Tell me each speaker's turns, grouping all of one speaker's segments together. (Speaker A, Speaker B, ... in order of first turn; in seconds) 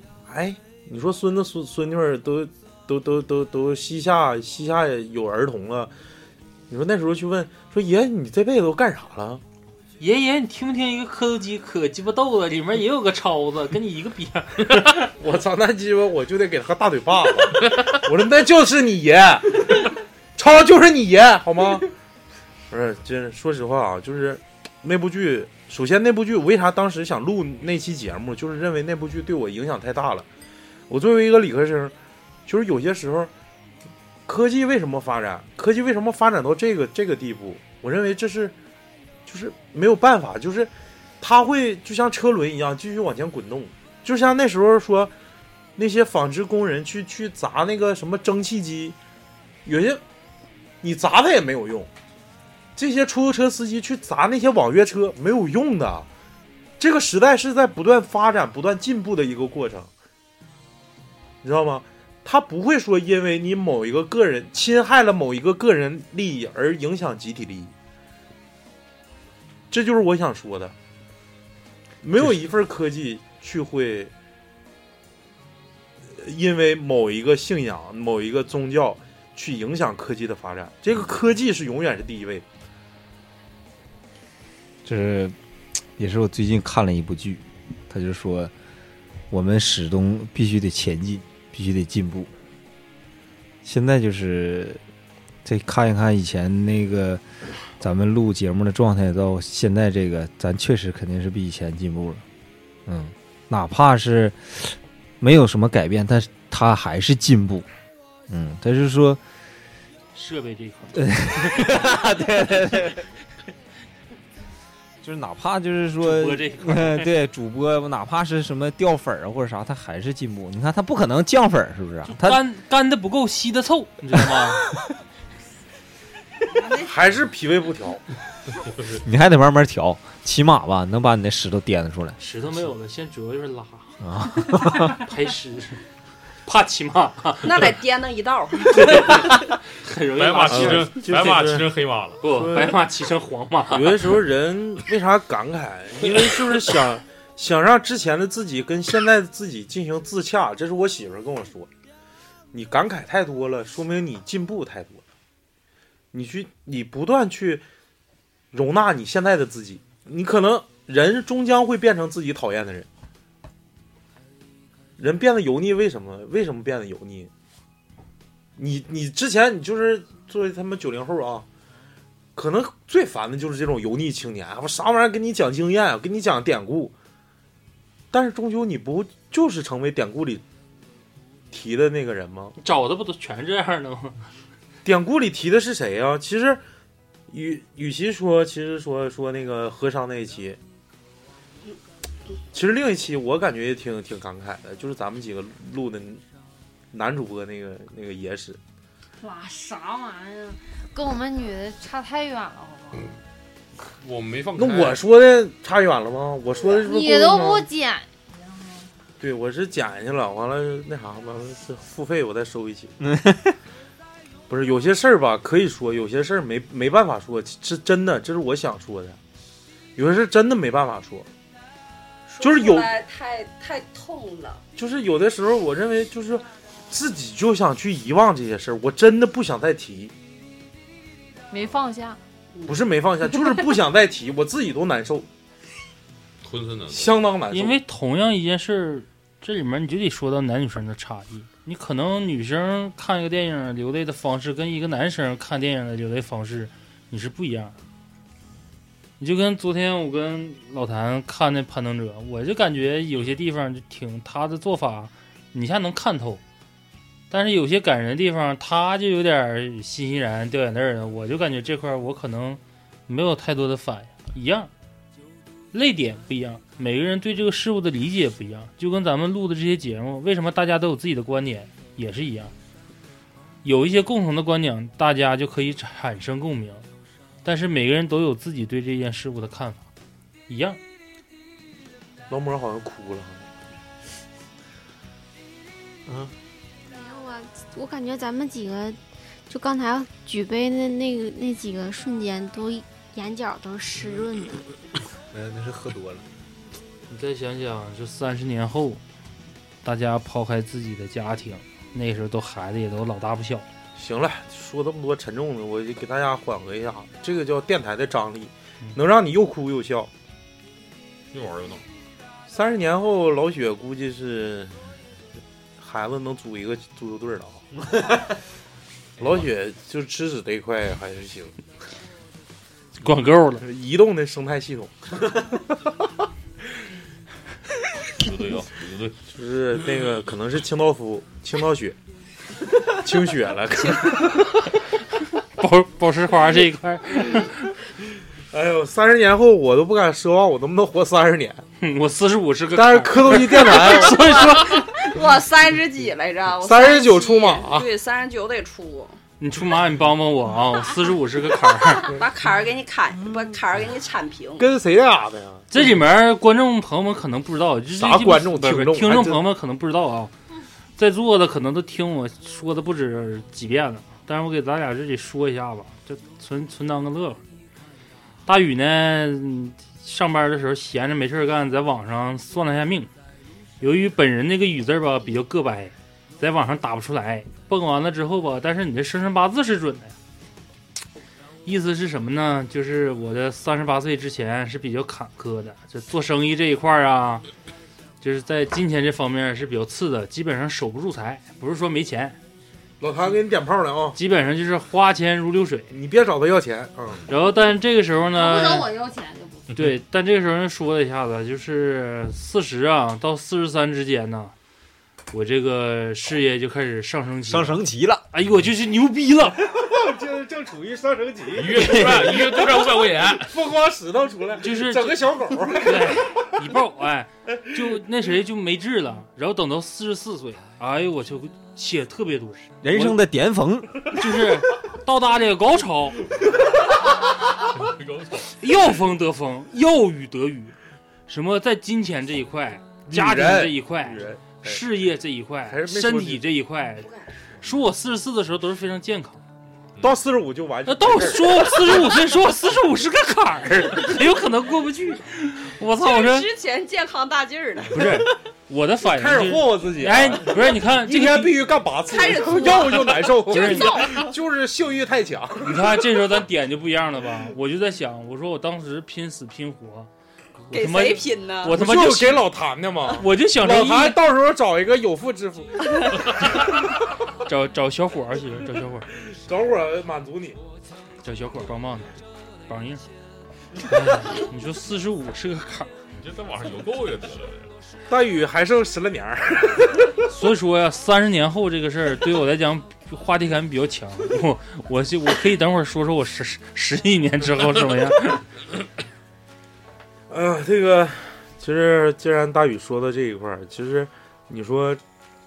Speaker A: 0.3-5.9, 6.7-9.4, 15.2-21.9, 22.7-30.2, 30.9-31.9, 32.5-33.3, 34.2-38.5, 39.2-45.1, 45.8-49.0, 49.6-50.0, 50.8-51.9, 52.8-56.1, 56.8-59.9, 61.4-67.7, 69.7-70.7, 72.0-74.1, 76.1-82.4, 126.7-128.0, 140.5-142.8, 143.7-151.7, 152.5-155.0, 156.1-157.6, 158.5-162.9, 165.0-167.3, 168.6-171.4, 172.3-176.9, 178.1-180.4, 181.5-182.5, 184.8-186.6, 187.3-190.6, 192.5-196.2, 196.9-198.6, 204.6-207.7, 209.2-212.9, 214.5-219.2, 219.9-221.3, 222.4-222.9, 224.8-230.1, 232.7-235.3, 236.9-237.8, 282.3-283.4, 303.9-310.1, 312.5-314.7, 315.8-317.6, 319.2-321.5, 323.6-325.3, 329.3-331.9, 332.9-334.6, 338.5-341.6, 342.7-344.4, 346.6-347.9, 354.6-355.7, 357.9-359.4, 393.0-394.2, 395.9-397.2, 409.6-416.4, 433.1-434.8, 435.6-436.4, 440.0-442.1, 449.0-455.8, 461.7-466.6, 469.3-470.6, 478.1-480.2, 490.3-495.0
Speaker B: 10.0-15.1, 110.1-112.0, 116.0-117.1, 122.1-124.6, 132.2-134.0, 134.5-135.8, 136.4-137.5, 138.7-140.9, 142.2-144.1, 182.6-184.2, 237.5-247.8, 249.2-256.4, 257.3-264.7, 265.7-272.5, 273.6-276.9, 277.4-279.9, 280.5-280.8, 297.1-299.0, 299.8-303.6, 323.0-323.6, 335.6-337.7, 341.8-344.9, 349.4-352.1, 355.7-360.3, 361.0-367.4, 368.4-373.1, 373.8-380.1, 381.6-387.4, 388.2-392.4, 394.1-395.9, 397.3-398.9, 399.7-404.5, 405.3-409.6, 414.6-423.2, 424.1-426.2, 428.6-430.8, 431.3-437.1, 437.6-439.4, 440.9-446.5, 447.9-451.5, 453.5-454.1, 455.6-460.1, 460.7-462.4, 463.2-464.2, 467.4-469.1, 471.2-473.1, 473.8-475.9, 480.3-488.4
Speaker C: 84.8-85.3, 86.0-88.5, 89.3-92.3, 93.6-94.8, 95.4-97.2, 97.8-102.2, 102.8-107.7, 108.3-109.2, 111.0-113.0, 115.0-122.4, 129.0-132.2, 134.0-134.9, 213.0-213.5, 286.1-286.3, 295.3-296.2, 407.4-408.2, 411.7-412.3, 422.8-424.1
Speaker D: 137.4-139.3, 222.3-224.6, 343.7-349.2, 352.1-354.7, 437.0-437.5, 445.9-448.2, 452.1-454.3, 460.7-461.7
Speaker E: 140.2-142.2, 203.9-205.0, 236.4-237.2, 311.3-311.8, 328.1-329.2, 411.5-413.5, 427.6-428.5, 476.1-477.7
Speaker F: 199.2-203.1, 206.8-208.8, 231.5-232.2, 398.4-399.7
Speaker G: 286.9-289.0, 289.5-294.6